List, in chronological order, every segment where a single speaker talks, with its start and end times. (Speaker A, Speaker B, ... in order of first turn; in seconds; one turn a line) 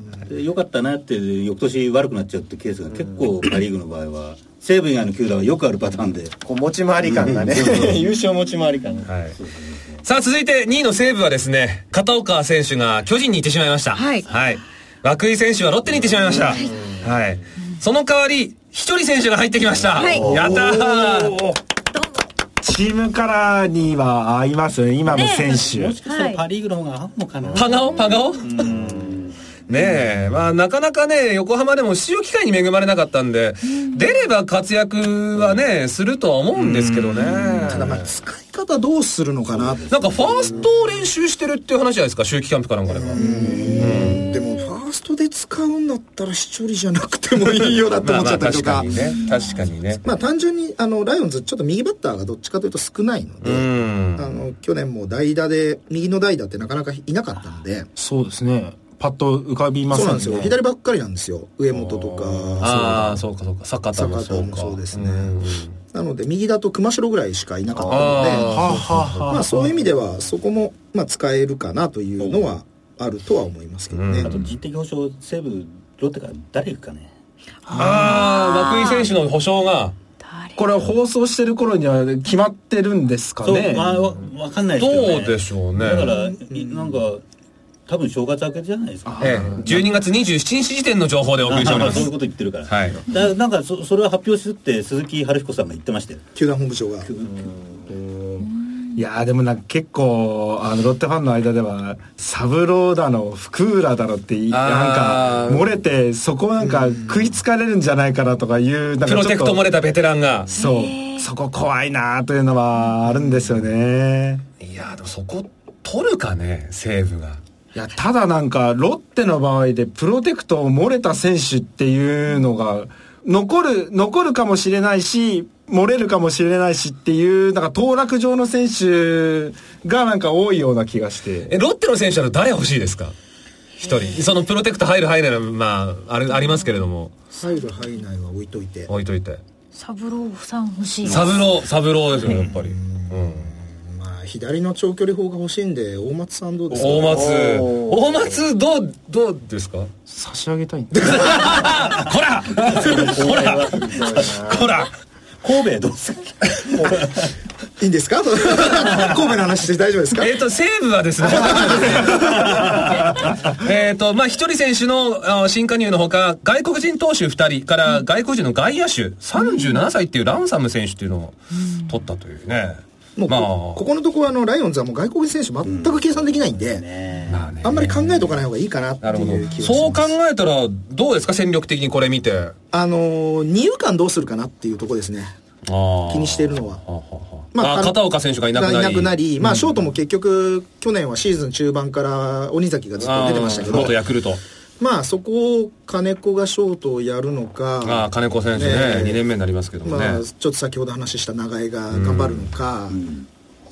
Speaker A: 0.2-6.3
Speaker B: 6.4-9.1
Speaker A: 7.1-8.0
Speaker C: 9.1-9.4
Speaker A: 9.4-9.8
Speaker C: 10.0-21.4
Speaker D: 13.9-14.3
Speaker D: 20.0-20.3
Speaker A: 20.0-20.6
Speaker E: 20.2-21.6
Speaker D: 21.9-22.2
Speaker E: 22.6-26.0
Speaker D: 25.1-26.4
Speaker A: 25.2-29.3
Speaker C: 27.5-28.8
Speaker D: 27.8-28.3
Speaker C: 29.7-38.0
Speaker D: 33.7-34.1
Speaker F: 37.6-39.9
Speaker A: 39.5-40.6
Speaker C: 39.9-44.3
Speaker F: 42.9-48.9
Speaker E: 43.2-44.1
Speaker D: 44.3-44.6
Speaker C: 48.0-50.0
Speaker F: 50.0-57.9
Speaker C: 53.4-54.3
Speaker E: 58.0-60.6
Speaker F: 59.9-62.9
Speaker E: 61.9-63.2
Speaker C: 62.6-65.7
Speaker F: 64.0-65.4
Speaker F: 65.9-74.3
Speaker C: 67.8-69.3
Speaker E: 68.3-69.8
Speaker A: 72.2-72.5
Speaker C: 73.9-74.4
Speaker A: 74.2-77.1
Speaker C: 77.7-80.0
Speaker E: 77.7-78.2
Speaker D: 77.8-79.1
Speaker D: 80.2-80.7
Speaker E: 80.6-84.1
Speaker A: 83.4-87.2
Speaker C: 84.8-86.1
Speaker D: 86.1-86.4
Speaker A: 87.9-90.0
Speaker E: 89.1-89.6
Speaker C: 89.2-92.1
Speaker A: 91.4-96.2
Speaker C: 92.7-93.0
Speaker F: 96.3-97.1
Speaker A: 97.0-97.8
Speaker E: 99.0-109.6
Speaker C: 104.5-105.7
Speaker F: 106.6-107.2
Speaker C: 109.0-110.5
Speaker E: 110.5-114.4
Speaker D: 110.5-111.2
Speaker C: 114.6-117.4
Speaker E: 117.8-131.5
Speaker C: 131.5-133.1
Speaker C: 133.8-137.1
Speaker D: 133.8-134.3
Speaker F: 137.4-138.9
Speaker C: 138.9-139.4
Speaker D: 139.8-141.3
Speaker C: 141.1-143.5
Speaker F: 142.3-147.2
Speaker C: 146.7-149.9
Speaker B: 147.1-148.0
Speaker E: 150.1-151.7
Speaker C: 150.9-154.9
Speaker A: 152.7-154.6
Speaker A: 155.4-157.3
Speaker F: 157.8-160.3
Speaker C: 160.2-173.8
Speaker F: 161.3-162.2
Speaker A: 162.1-162.9
Speaker D: 169.4-169.8
Speaker F: 173.2-176.8
Speaker A: 175.6-177.6
Speaker C: 177.3-178.3
Speaker F: 177.6-180.1
Speaker C: 179.0-182.5
Speaker F: 182.7-185.3
Speaker C: 185.7-189.2
Speaker F: 186.1-186.8
Speaker F: 187.5-194.0
Speaker E: 189.4-189.7
Speaker C: 193.0-194.4
Speaker F: 194.8-199.2
Speaker C: 197.8-200.2
Speaker F: 199.8-203.0
Speaker C: 201.9-202.5
Speaker A: 202.9-203.2